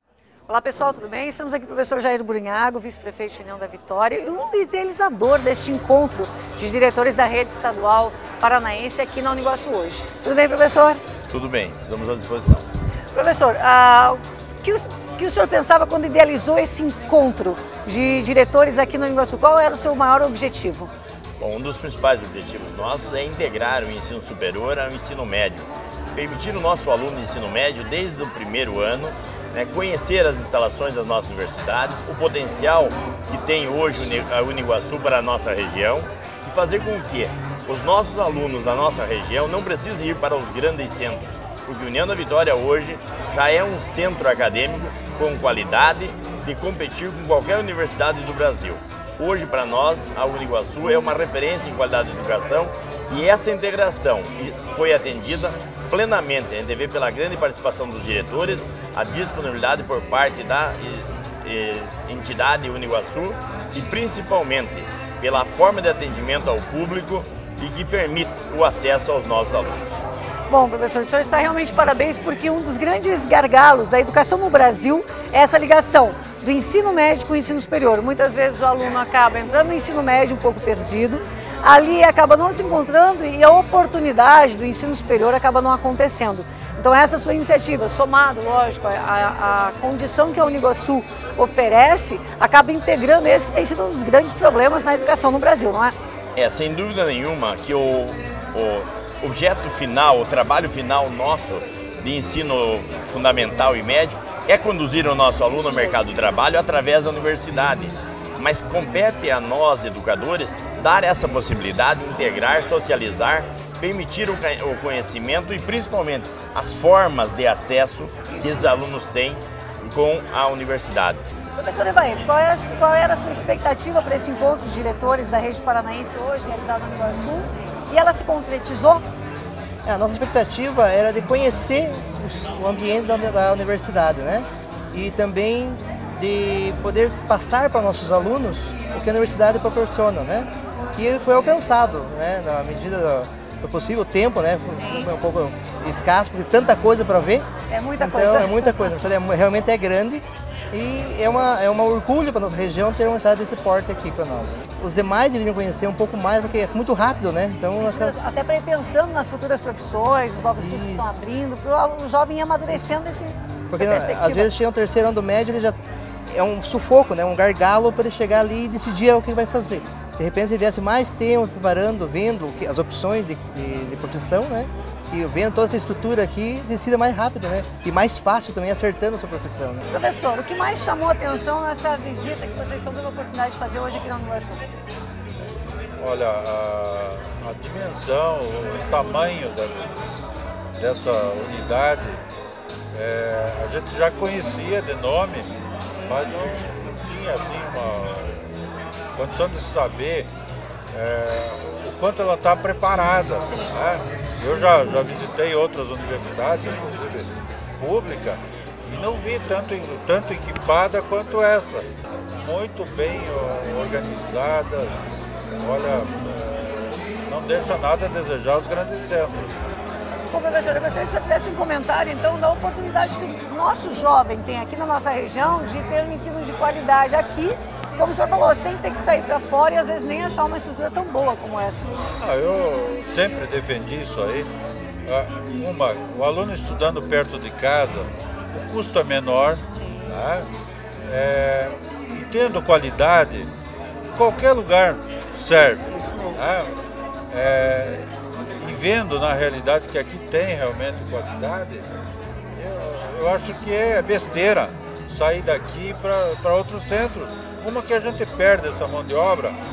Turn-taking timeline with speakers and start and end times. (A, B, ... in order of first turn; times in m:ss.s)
0:00.5-0:11.0 A
0:11.3-0:12.7 B
0:13.1-0:20.9 A
0:21.4-1:09.8 B
1:10.5-1:35.9 A
1:36.4-2:01.2 B
1:45.5-1:46.0 A
1:58.3-1:58.8 A
2:01.6-2:09.0 A
2:09.8-2:27.4 C
2:24.7-2:25.1 A
2:27.7-2:29.0 A
2:28.0-2:38.2 C
2:37.8-2:44.5 A
2:40.6-2:41.1 C
2:43.7-2:45.8 C
2:46.3-2:59.8 C
2:59.9-3:04.6 A
3:06.0-3:09.9 D
3:10.8-3:12.2 D
3:12.9-3:15.5 D
3:16.0-3:18.5 D
3:19.2-3:20.3 D
3:20.9-3:31.8 D
3:32.4-3:35.0 D
3:35.6-3:39.5 D
3:40.3-3:52.0 A
3:52.2-3:54.5 D
3:55.0-4:00.5 D
4:01.0-4:03.5 D
4:04.1-4:06.7 D
4:07.3-4:08.0 D
4:08.6-4:11.9 D
4:12.6-4:19.6 D